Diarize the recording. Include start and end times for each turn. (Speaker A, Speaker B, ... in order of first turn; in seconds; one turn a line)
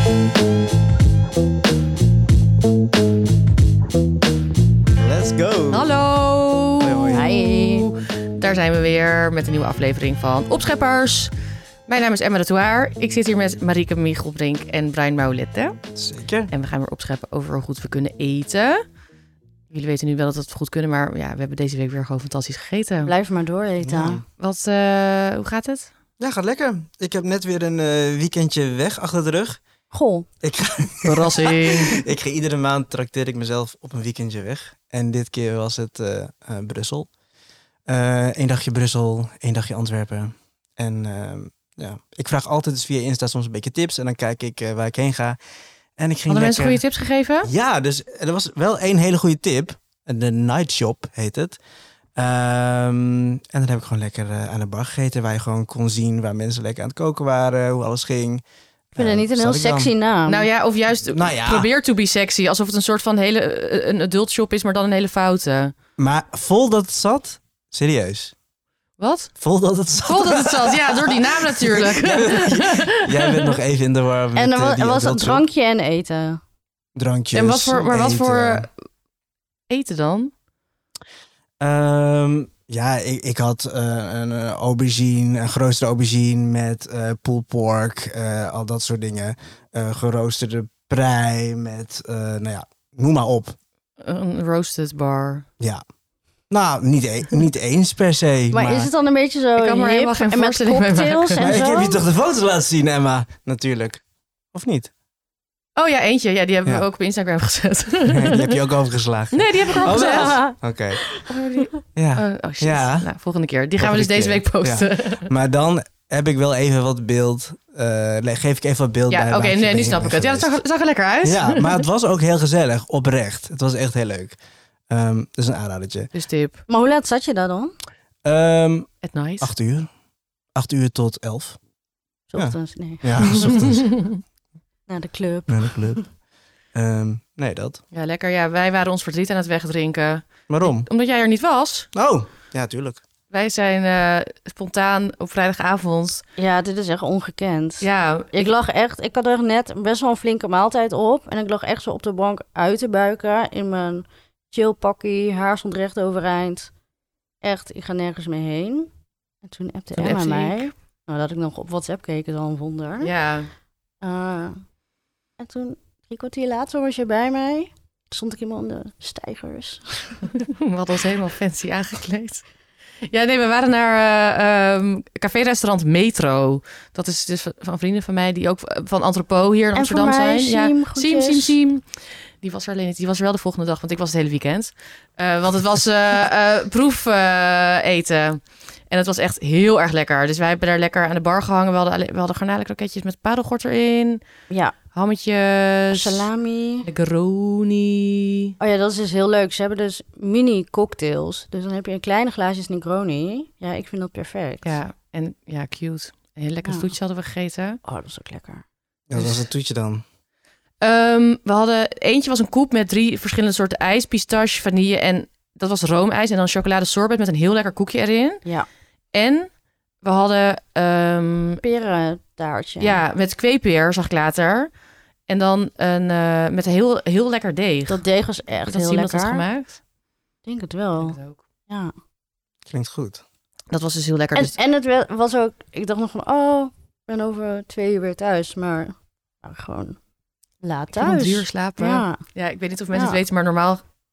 Speaker A: 5.0-6.0
Speaker B: 5.7-11.3
Speaker A: 6.8-7.3
Speaker C: 7.1-7.9
Speaker B: 11.9-15.8
Speaker A: 15.9-16.5
Speaker B: 16.5-18.8
Speaker B: 19.7-23.1
Speaker C: 23.0-24.2
Speaker A: 23.8-24.2
Speaker B: 24.4-25.9
Speaker A: 26.2-29.6
Speaker C: 29.9-30.3
Speaker A: 30.4-37.1
Speaker B: 31.0-32.0
Speaker A: 37.9-45.4
Speaker A: 46.0-46.8
Speaker B: 46.3-47.5
Speaker A: 47.4-51.6
Speaker A: 52.1-59.9
Speaker C: 59.0-60.5
Speaker B: 60.3-65.7
Speaker A: 61.0-61.7
Speaker A: 66.0-68.3
Speaker B: 69.0-69.3
Speaker A: 69.4-75.4
Speaker B: 70.0-73.5
Speaker C: 74.3-76.4
Speaker A: 76.9-78.7
Speaker B: 77.3-78.7
Speaker B: 79.7-80.3
Speaker A: 81.6-93.5
Speaker B: 94.0-95.5
Speaker A: 96.5-98.9
Speaker C: 98.5-102.0
Speaker B: 99.6-101.5
Speaker A: 101.4-104.0
Speaker A: 104.5-104.9
Speaker B: 105.8-108.5
Speaker A: 108.1-111.0
Speaker B: 109.3-110.4
Speaker C: 109.8-111.7
Speaker B: 111.3-115.3
Speaker A: 112.0-113.1
Speaker A: 113.8-120.5
Speaker B: 119.1-121.8
Speaker A: 121.2-124.3
Speaker A: 124.9-126.1
Speaker B: 126.1-126.6
Speaker C: 126.7-127.7
Speaker A: 128.2-128.9
Speaker B: 129.0-129.5
Speaker A: 129.4-129.9
Speaker A: 130.5-131.6
Speaker C: 132.3-133.5
Speaker A: 132.3-133.9
Speaker B: 133.2-134.2
Speaker C: 134.9-136.0
Speaker A: 135.5-136.0
Speaker A: 136.7-137.8
Speaker B: 137.9-141.9
Speaker A: 140.5-140.9
Speaker A: 141.9-143.0
Speaker B: 143.3-146.2
Speaker C: 146.4-156.7
Speaker B: 147.8-148.5
Speaker C: 157.4-158.9
Speaker C: 159.4-163.1
Speaker B: 159.9-160.7
Speaker B: 163.0-163.5
Speaker C: 164.0-164.6
Speaker C: 165.4-170.3
Speaker B: 170.3-172.4
Speaker B: 173.0-194.2
Speaker C: 179.7-181.6
Speaker C: 194.5-194.7
Speaker B: 194.9-196.3
Speaker C: 195.9-196.9
Speaker B: 196.8-198.5
Speaker C: 198.6-204.8
Speaker B: 204.6-207.8
Speaker C: 207.8-208.6
Speaker A: 209.1-210.0
Speaker B: 209.2-209.4
Speaker B: 210.8-218.4
Speaker B: 219.1-219.5
Speaker B: 220.0-221.6
Speaker C: 221.6-223.0
Speaker B: 222.8-224.7
Speaker B: 225.3-228.0
Speaker C: 227.9-229.4
Speaker B: 228.7-229.8
Speaker C: 230.4-231.2
Speaker B: 231.0-231.4
Speaker A: 232.7-233.2
Speaker B: 233.7-234.6
Speaker C: 234.3-240.0
Speaker C: 240.6-242.2
Speaker B: 240.9-243.8
Speaker C: 242.9-243.2